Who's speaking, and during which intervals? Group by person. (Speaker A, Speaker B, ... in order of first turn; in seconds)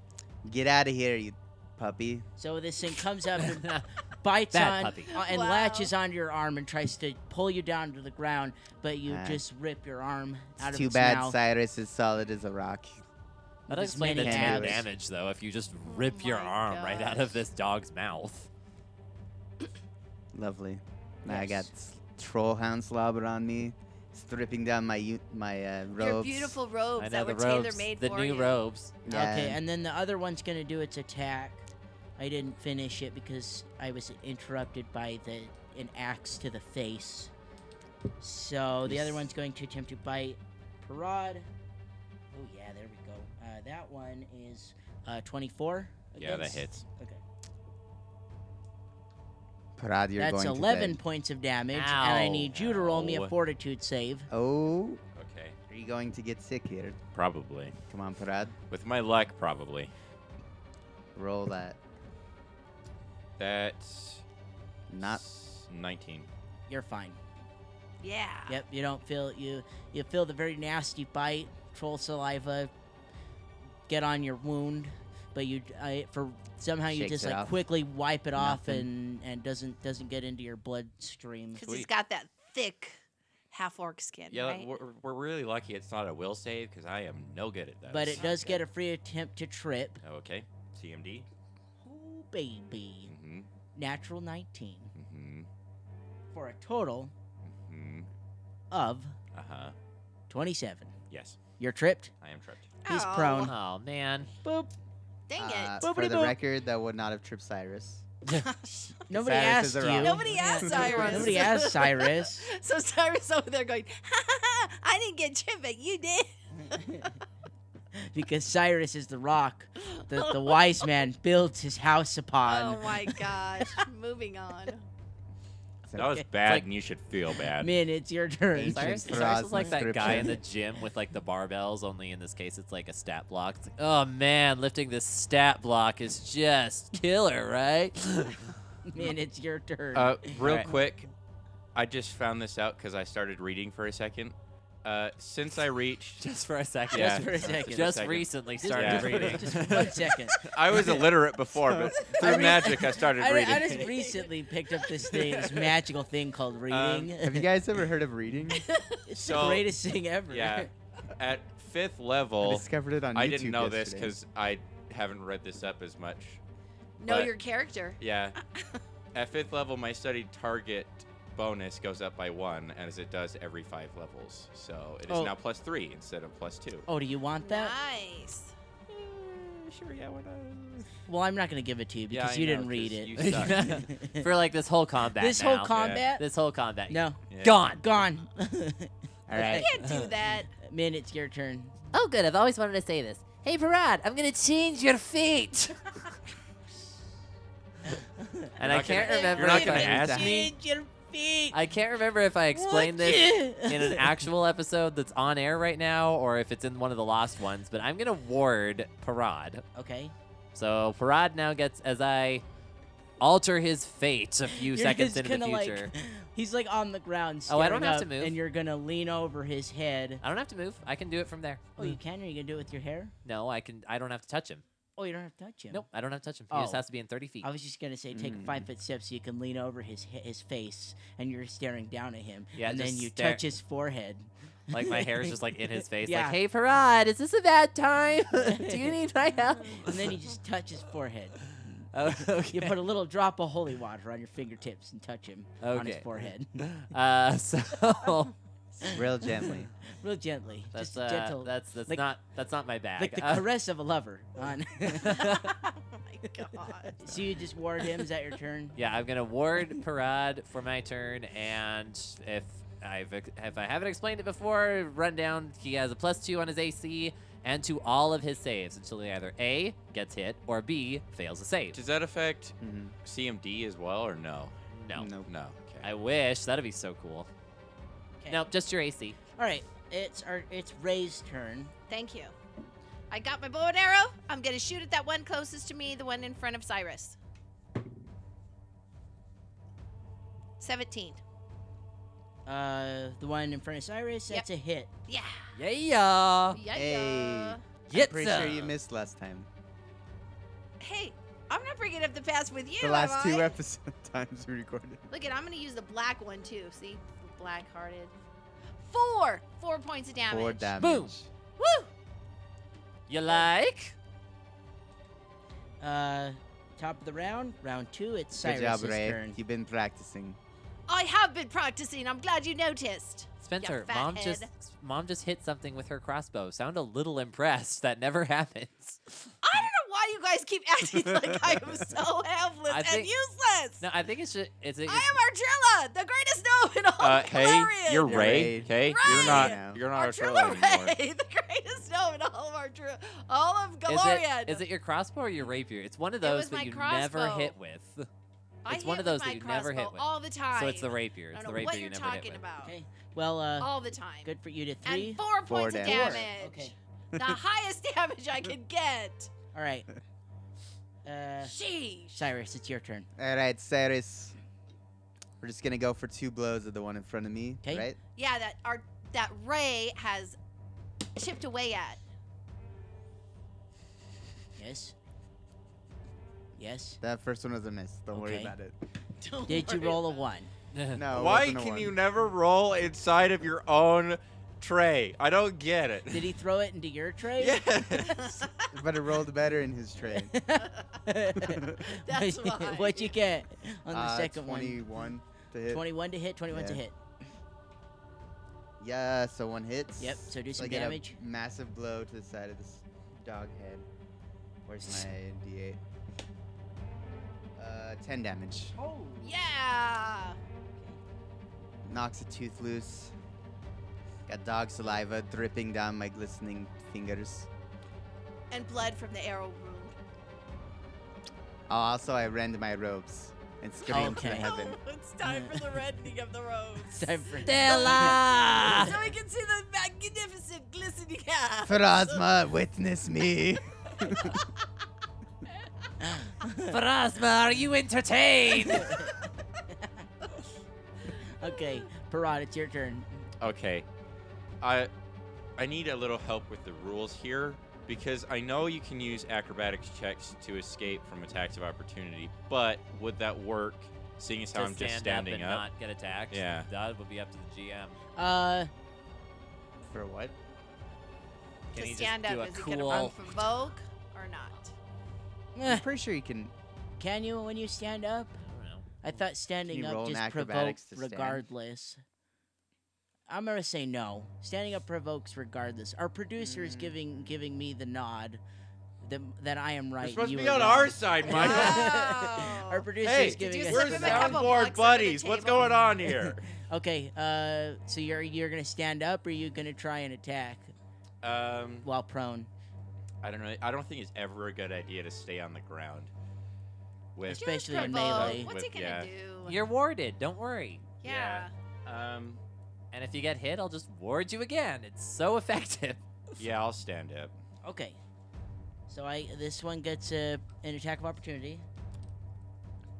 Speaker A: 0.4-2.3, 9.1-9.4, 10.6-13.0, 14.2-14.9, 20.3-26.6, 29.1-29.6, 38.9-39.2, 49.8-51.0, 54.3-55.0, 55.7-57.0, 57.9-58.5, 61.1-61.8, 64.9-65.2, 76.9-77.5, 78.4-78.9, 105.4-108.1, 109.1-111.1, 128.5-130.4, 151.5-152.0, 157.2-158.7, 162.4-164.2, 189.3-189.8, 199.9-200.3, 228.1-228.7, 248.8-249.7, 272.6-272.9, 274.9-275.3, 296.7-299.5, 302.8-305.1, 310.3-311.3, 318.4-320.4, 338.1-339.8, 355.5-356.3, 363.2-364.4, 365.4-368.0, 377.0-378.8, 380.9-382.0, 388.7-390.3, 391.4-391.7, 393.9-395.9, 396.5-396.8, 398.8-403.9, 404.7-405.8, 407.6-408.8, 411.9-413.1, 414.3-417.5, 421.7-424.8, 431.6-434.4, 459.9-460.3, 465.6-466.5, 469.7-471.4, 476.4-477.2
Speaker B: 2.4-11.4, 13.7-14.8, 21.3-21.7, 29.1-31.7, 32.2-37.3, 38.2-41.5, 42.3-47.2, 50.2-54.3, 66.7-67.2, 68.5-72.7, 73.9-81.7, 87.9-90.0, 91.8-93.1, 93.8-94.9, 96.3-97.1, 98.7-99.1, 100.3-100.9, 101.6-102.1, 102.9-103.5, 104.4-104.7, 105.8-106.4, 109.1-112.5, 116.7-117.1, 118.0-123.8, 125.9-126.3, 127.4-130.3, 138.9-140.7, 146.9-148.0, 148.6-150.4, 152.1-157.5, 159.1-160.7, 175.1-175.3, 176.9-177.8, 181.1-184.3, 185.2-186.2, 186.9-187.2, 187.7-189.9, 190.5-191.7, 198.0-198.5, 199.1-201.6, 202.5-204.1, 209.8-210.1, 214.5-220.2, 221.8-223.1, 225.0-225.9, 226.5-226.8, 227.4-235.3, 236.0-236.4, 238.4-238.9, 239.7-241.9, 242.5-246.6, 250.0-252.1, 253.0-255.5, 257.0-258.8, 278.2-278.4, 279.4-281.7, 292.5-294.9, 315.8-319.4, 352.6-355.2, 355.8-356.8, 359.5-359.9, 361.1-361.5, 362.1-363.1, 367.6-367.9, 374.6-374.9, 376.6-377.0, 378.1-378.5, 379.5-380.5, 386.1-387.6, 390.1-394.8, 395.7-397.0, 400.0-401.2, 408.8-409.4, 423.9-424.5, 425.2-425.7, 426.8-428.9, 436.0-436.8, 438.7-439.2, 439.7-440.1, 441.1-443.3, 458.2-458.7, 465.6-465.9, 467.0-468.4, 469.0-472.0, 473.3-478.4, 479.0-484.5, 486.0-490.7, 491.8-492.5, 497.3-498.5, 507.6-508.0, 508.9-511.6
Speaker C: 3.4-3.9, 4.5-5.1, 13.7-18.5, 27.0-28.9, 51.7-52.5, 103.4-104.3, 128.7-138.5, 146.2-150.4, 183.2-187.8, 189.8-190.1, 191.9-196.0, 198.6-200.2, 201.5-209.6, 210.5-212.4, 213.2-215.9, 217.5-218.4, 220.2-222.0, 223.2-224.6, 225.7-227.5, 232.6-233.4, 234.7-240.2, 241.9-242.8, 245.6-246.1, 246.6-248.3, 250.7-253.5, 255.1-255.5, 258.8-271.8, 274.7-275.1, 275.8-277.3, 278.3-279.2, 295.6-296.6, 297.9-298.8, 310.8-311.1, 313.1-313.9, 323.4-329.3, 332.7-333.1, 333.8-335.1, 343.9-348.1, 348.7-352.4, 380.7-381.0, 427.4-429.0, 436.7-439.1, 454.5-458.0, 461.7-463.2, 468.5-468.9, 499.4-501.0, 502.9-506.0
Speaker D: 5.1-5.9, 15.9-17.4, 26.0-28.6, 68.0-68.6, 81.5-83.0, 83.5-84.7, 102.8-103.5, 105.3-105.8, 108.3-109.0, 110.0-117.1, 119.8-120.9, 122.4-124.9, 153.6-154.3, 158.5-159.1, 167.0-168.8, 177.4-178.5, 189.5-190.5, 199.1-199.4, 255.0-257.1, 281.9-282.4, 283.1-287.2, 290.6-291.2, 295.1-295.4, 296.5-297.6, 300.8-303.6, 305.1-308.1, 308.8-310.8, 311.6-311.9, 320.9-324.5, 329.4-333.9, 334.9-344.6, 346.2-347.6, 348.6-352.8, 353.6-354.3, 354.9-359.3, 361.4-362.3, 368.1-370.4, 371.1-372.0, 379.2-380.2, 388.0-388.7, 390.6-391.0, 391.9-393.1, 409.2-410.4, 418.5-419.9, 424.0-432.3, 461.7-464.7, 481.2-485.8, 497.3-499.6, 501.0-501.5
Speaker E: 46.2-46.8, 52.5-53.4, 55.1-55.6, 57.1-57.8, 58.7-59.9, 63.4-64.2, 65.0-66.3, 81.6-81.9, 84.3-88.6, 90.0-91.3, 93.1-93.5, 95.0-95.5, 97.4-98.1, 99.3-99.7, 101.1-101.4, 102.2-102.7, 126.0-127.7, 139.9-141.1, 141.8-146.2, 146.9-153.9, 156.7-157.1, 159.1-159.7, 160.3-166.4, 167.1-167.3, 168.0-168.4, 169.1-176.9, 178.9-180.9, 182.1-183.9, 185.8-186.0, 187.3-187.6, 198.6-200.5, 271.7-274.5, 275.2-275.9, 337.0-340.9, 381.1-386.3, 387.4-388.4, 443.4-443.9, 444.6-444.9, 445.6-455.7, 456.3-456.7, 480.0-481.9, 483.0-486.5, 491.2-491.9, 493.2-496.1, 497.1-499.1, 501.0-502.4, 506.4-507.4